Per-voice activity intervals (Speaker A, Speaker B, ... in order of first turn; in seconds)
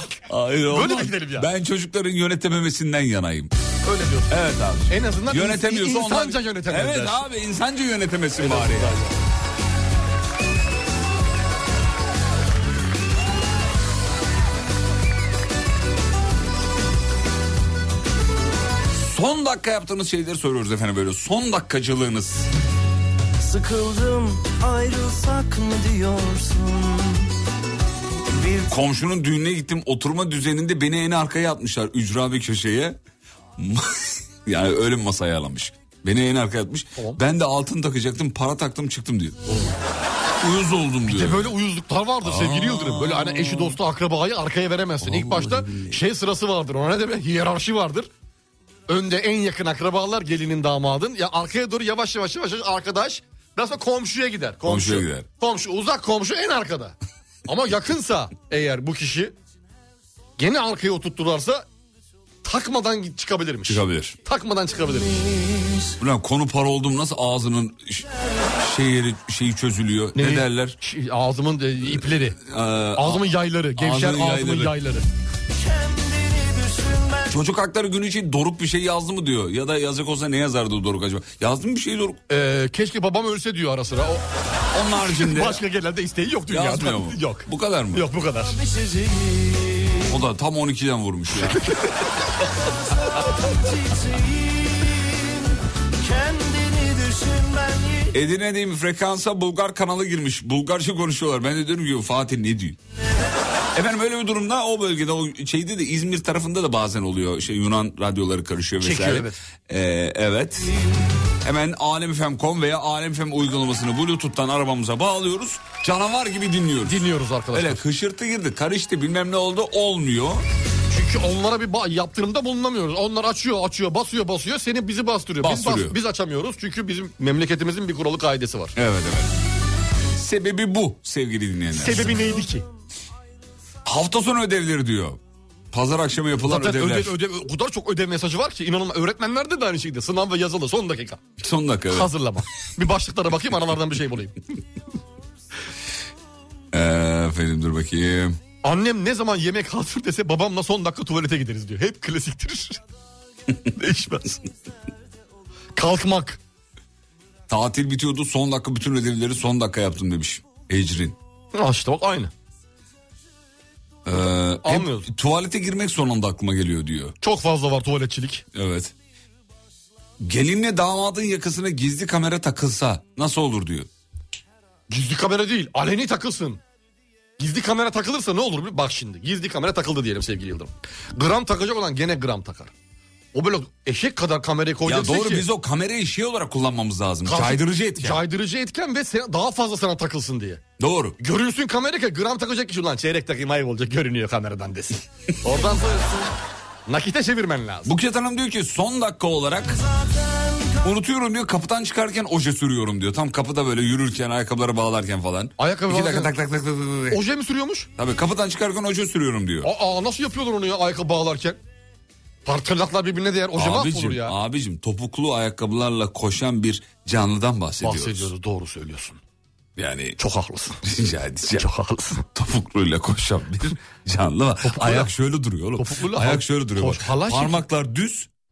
Speaker A: 0.3-3.5, 4.3-8.9, 18.9-22.5, 28.6-33.0, 33.6-33.9, 34.4-39.4, 40.4-41.5, 42.2-43.8, 45.0-46.0, 54.6-55.3, 63.6-64.2, 66.0-70.8, 71.9-74.8, 77.3-82.2, 84.7-85.6, 86.5-88.0, 90.0-91.7, 98.1-102.8, 103.7-110.7, 111.4-120.4, 125.4-126.0, 128.7-129.3, 130.2-132.3, 133.8-135.2, 135.7-137.1, 141.4-142.1, 146.7-148.4, 157.5-161.2, 164.0-167.2, 168.5-168.9, 170.2-173.9, 184.8-188.2, 190.8-191.2, 197.8-199.8, 200.8-207.2, 208.0-209.7, 213.5-218.3, 219.8-220.2, 220.8-221.7, 222.3-228.3
Speaker B: 0.7-1.5, 3.8-4.3, 4.9-7.2, 8.4-9.1, 41.1-48.1, 48.9-56.9, 57.5-59.3, 60.4-61.6, 62.4-65.3, 70.2-72.4, 73.0-75.0, 82.3-84.2, 84.9-88.6, 108.8-109.4, 116.8-117.8, 120.9-128.7, 131.8-132.7, 136.4-141.2, 141.9-144.4, 148.6-152.8, 153.7-154.4, 155.8-156.4, 161.5-162.3, 164.2-165.1, 167.2-168.4, 174.9-176.6, 177.4-182.7, 183.3-185.5, 187.2-190.6, 191.2-196.2, 196.8-197.9, 205.6-206.3, 207.1-207.9, 209.6-211.6, 212.4-214.3, 217.8-219.2, 220.2-220.8, 221.5-222.2, 224.6-225.1, 225.8-227.6
Speaker C: 23.4-27.1, 76.0-77.2, 96.2-98.1